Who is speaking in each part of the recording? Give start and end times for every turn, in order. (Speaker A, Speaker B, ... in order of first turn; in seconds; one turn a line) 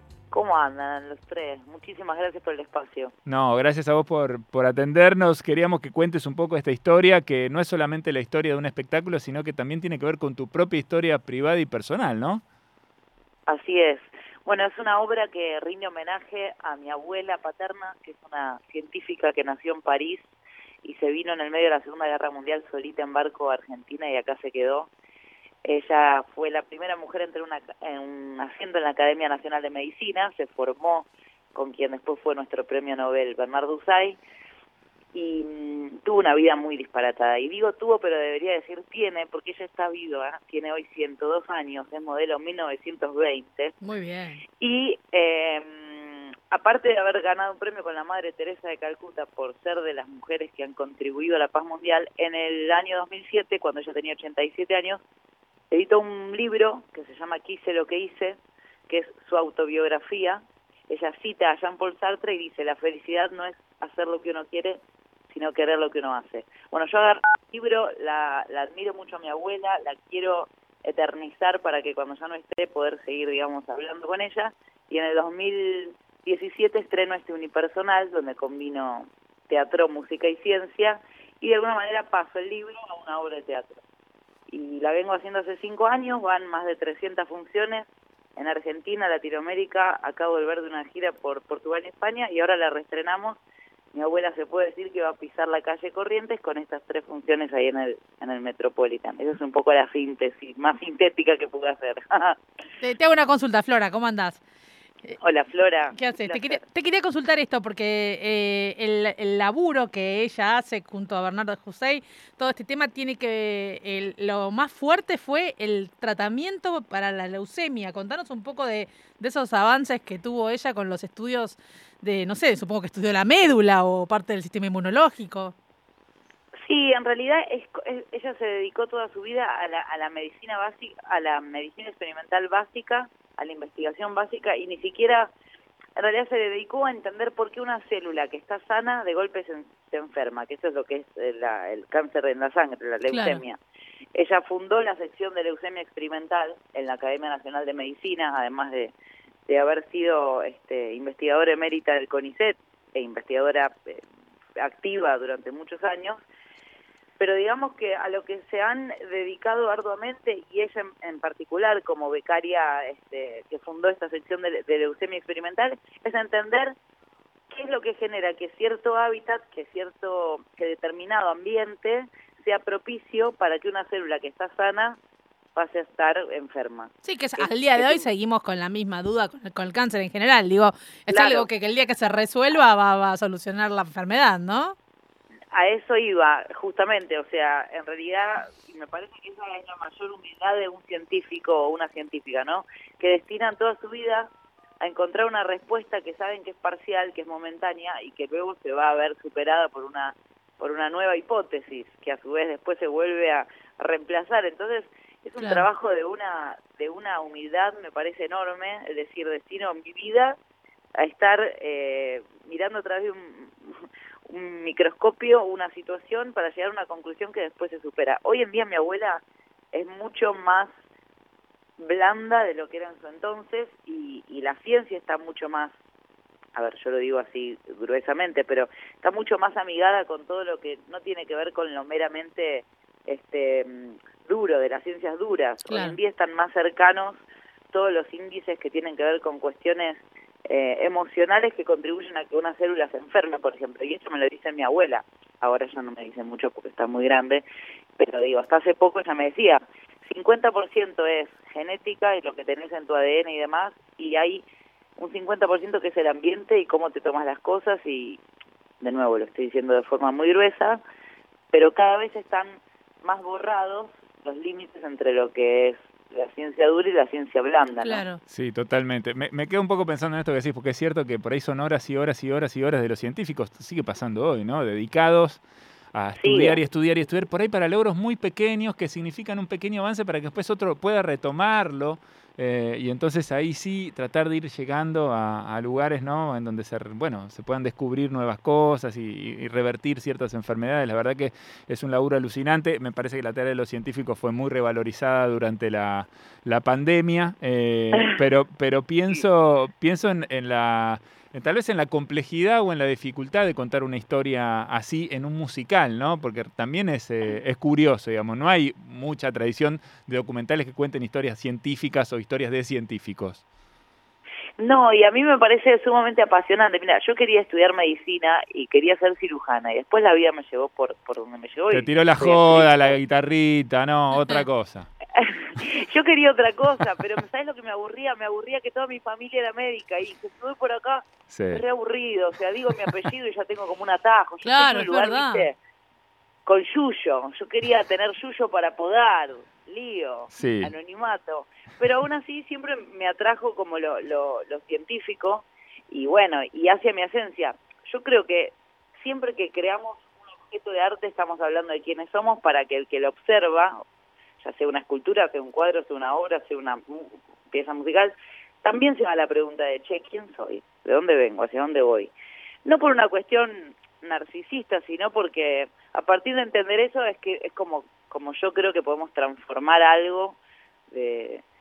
Speaker A: 0.3-3.1
Speaker B: 3.3-12.4
Speaker A: 13.5-20.3
Speaker A: 20.8-24.9
Speaker A: 25.6-34.2
Speaker A: 35.1-43.7
Speaker C: 43.8-44.4
Speaker A: 44.6-55.0
Speaker A: 55.7-64.8
Speaker A: 65.3-83.8
Speaker A: 84.5-93.4
Speaker A: 93.9-102.4
Speaker C: 102.8-104.4
Speaker A: 105.2-106.6
Speaker C: 105.9-125.5
Speaker A: 126.6-135.3
Speaker A: 136.0-143.6
Speaker C: 143.1-143.4
Speaker A: 144.2-148.9
Speaker A: 149.5-154.0
Speaker A: 154.6-156.2
Speaker A: 157.2-166.8
Speaker A: 167.5-175.0
Speaker A: 175.6-178.1
Speaker C: 177.0-184.8
Speaker A: 181.1-181.5
Speaker A: 185.5-194.3
Speaker A: 194.8-210.4
Speaker C: 205.4-205.7
Speaker A: 211.0-220.7
Speaker A: 221.8-225.7
Speaker A: 226.6-247.4
Speaker C: 235.7-236.0
Speaker A: 248.0-254.4
Speaker A: 255.0-258.2
Speaker A: 258.8-260.8
Speaker A: 261.5-268.1
Speaker C: 267.8-268.2
Speaker B: 268.3-275.4
Speaker B: 275.9-313.4
Speaker A: 276.2-276.6
Speaker A: 314.6-323.0
Speaker B: 321.7-324.9
Speaker C: 324.1-324.4
Speaker A: 325.1-335.6
Speaker B: 331.3-331.6
Speaker C: 334.4-335.5
Speaker A: 336.5-353.8
Speaker B: 340.3-340.7
Speaker A: 354.4-362.1
Speaker A: 362.6-370.4
Speaker A: 370.9-371.4